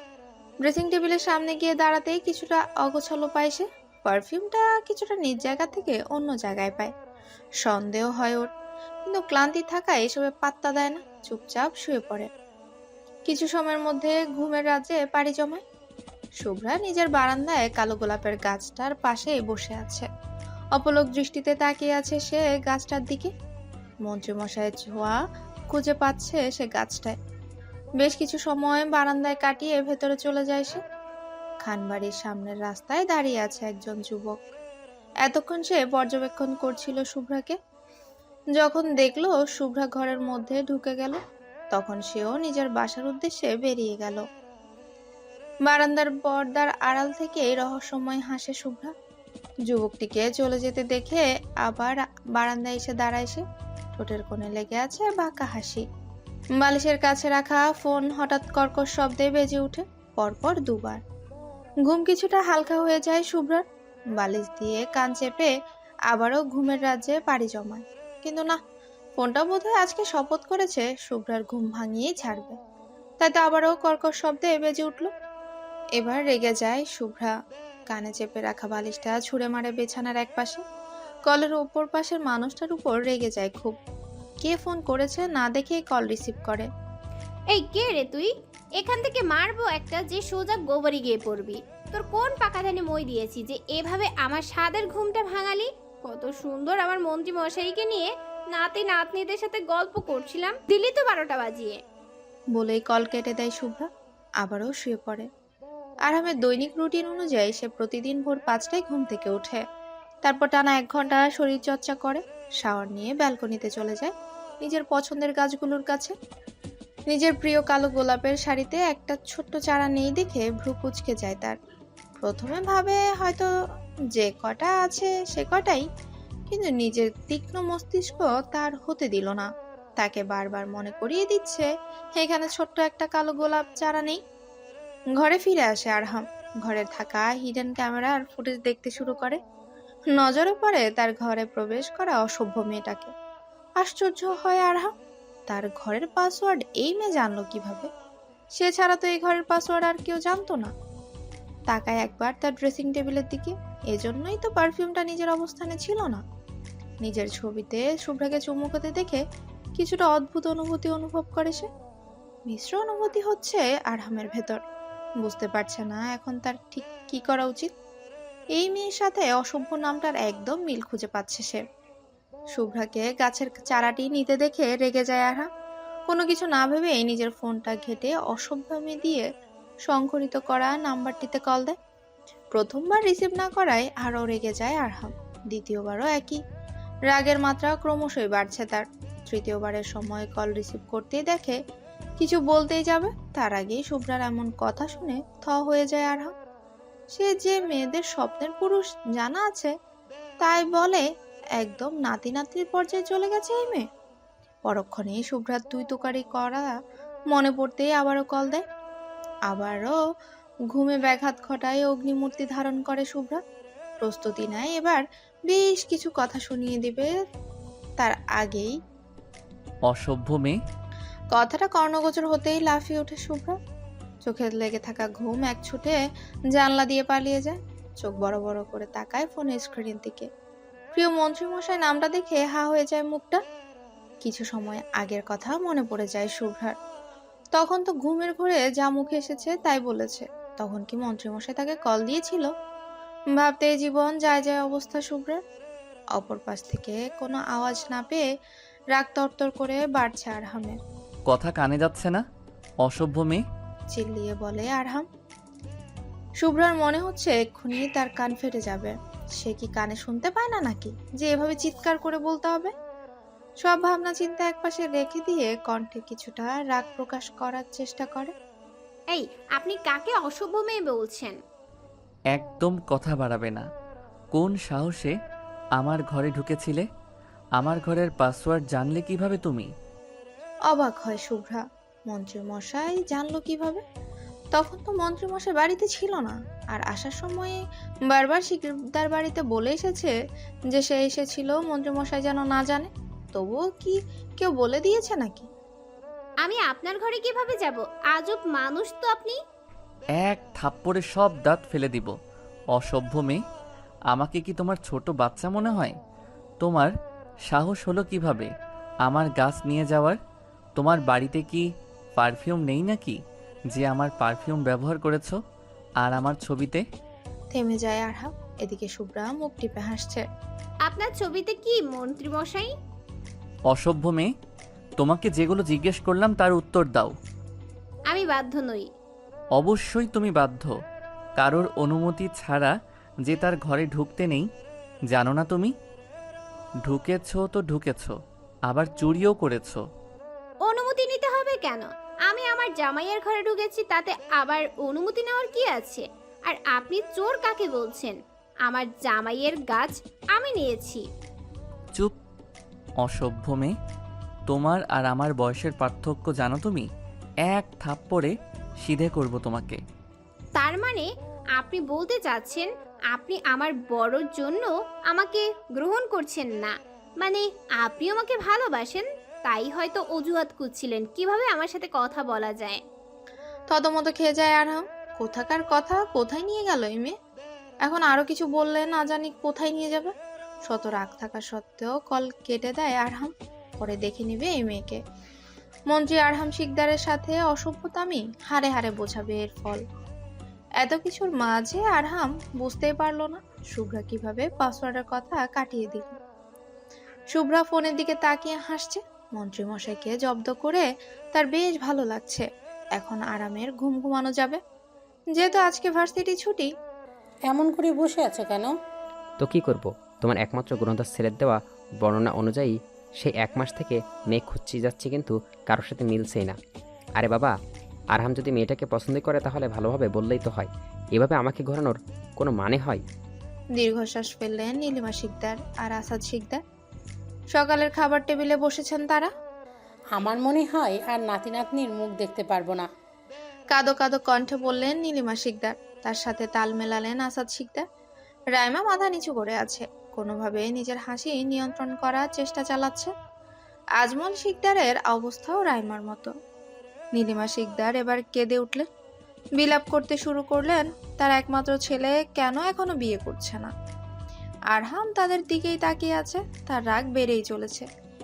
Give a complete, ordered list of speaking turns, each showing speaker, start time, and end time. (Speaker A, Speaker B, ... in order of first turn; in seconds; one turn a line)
Speaker A: 0.6-6.9
Speaker A: 7.6-8.5
Speaker A: 9.1-12.3
Speaker A: 13.3-15.6
Speaker A: 16.4-20.1
Speaker A: 20.8-23.3
Speaker A: 24.1-25.2
Speaker A: 25.7-27.1
Speaker A: 28.0-30.8
Speaker A: 31.6-34.4
Speaker A: 35.2-37.6
Speaker A: 38.6-41.2
Speaker A: 41.7-44.2
Speaker A: 45.7-48.9
Speaker A: 49.7-53.4
Speaker A: 54.0-55.8
Speaker A: 56.6-61.0
Speaker A: 61.9-63.6
Speaker A: 64.2-65.5
Speaker A: 66.1-68.6
Speaker A: 69.2-72.6
Speaker A: 73.2-75.1
Speaker A: 76.0-77.3
Speaker A: 77.9-80.6
Speaker A: 81.3-83.8
Speaker A: 84.4-86.7
Speaker B: 87.5-101.8
Speaker A: 102.5-103.9
Speaker A: 104.4-105.3
Speaker A: 106.1-109.6
Speaker A: 110.2-116.1
Speaker A: 117.1-121.6
Speaker A: 122.2-123.5
Speaker A: 124.2-125.8
Speaker A: 126.5-134.2
Speaker A: 135.2-139.4
Speaker A: 140.1-143.1
Speaker A: 143.8-144.9
Speaker A: 145.5-147.9
Speaker A: 148.6-150.7
Speaker A: 151.7-156.2
Speaker A: 157.0-159.2
Speaker A: 159.8-161.7
Speaker A: 162.5-164.6
Speaker A: 165.2-167.7
Speaker A: 168.6-171.6
Speaker A: 172.5-175.5
Speaker A: 176.1-179.3
Speaker A: 179.9-181.8
Speaker A: 182.5-186.4
Speaker A: 187.1-191.6
Speaker A: 192.2-196.3
Speaker A: 197.1-199.7
Speaker A: 200.4-201.0
Speaker A: 201.6-203.8
Speaker A: 204.7-206.7
Speaker A: 207.3-208.6
Speaker A: 209.5-210.0
Speaker A: 210.7-213.4
Speaker A: 214.0-217.1
Speaker A: 218.0-218.7
Speaker C: 219.9-220.6
Speaker A: 221.3-223.6
Speaker A: 224.2-226.0
Speaker A: 226.5-230.3
Speaker A: 230.9-233.4
Speaker A: 234.2-236.7
Speaker A: 237.6-242.5
Speaker A: 243.3-245.4
Speaker A: 246.2-248.2
Speaker A: 248.9-250.8
Speaker C: 251.3-252.2
Speaker C: 252.8-253.4
Speaker A: 253.9-255.1
Speaker A: 256.4-262.7
Speaker A: 263.6-268.3
Speaker B: 269.1-271.4
Speaker C: 272.3-273.6
Speaker C: 274.3-275.1
Speaker C: 275.8-276.9
Speaker C: 277.6-279.7
Speaker A: 280.7-283.8
Speaker A: 284.5-287.6
Speaker A: 288.1-290.1
Speaker A: 290.7-295.5
Speaker B: 296.4-299.4
Speaker C: 300.2-302.1
Speaker C: 302.7-303.4
Speaker C: 304.1-305.9
Speaker C: 306.6-306.9
Speaker C: 307.5-308.5
Speaker C: 309.1-310.2
Speaker C: 310.8-311.6
Speaker C: 312.2-313.2
Speaker C: 313.7-315.4
Speaker C: 316.0-316.8
Speaker A: 317.5-320.2
Speaker B: 320.9-322.7
Speaker C: 323.7-324.3
Speaker C: 325.0-327.1
Speaker B: 328.1-328.9
Speaker C: 329.6-330.7
Speaker C: 331.4-332.7
Speaker C: 333.2-334.5
Speaker C: 335.1-335.7
Speaker C: 336.9-338.1
Speaker C: 338.7-339.8
Speaker B: 340.6-351.0
Speaker C: 353.0-353.7
Speaker C: 354.5-356.9
Speaker C: 357.5-359.8
Speaker B: 360.6-372.8
Speaker A: 373.7-377.1
Speaker A: 377.9-380.1
Speaker A: 380.6-385.0
Speaker A: 385.9-389.8
Speaker A: 390.8-396.2
Speaker A: 397.3-404.6
Speaker A: 405.4-406.7
Speaker D: 407.5-408.7
Speaker E: 409.4-416.6
Speaker E: 417.2-417.6
Speaker E: 418.1-423.0
Speaker A: 423.8-426.6
Speaker A: 427.5-429.3
Speaker D: 430.1-432.8
Speaker A: 433.7-437.8
Speaker A: 438.5-443.1
Speaker A: 444.0-446.3
Speaker A: 447.1-448.9
Speaker A: 449.6-453.7
Speaker A: 454.7-457.9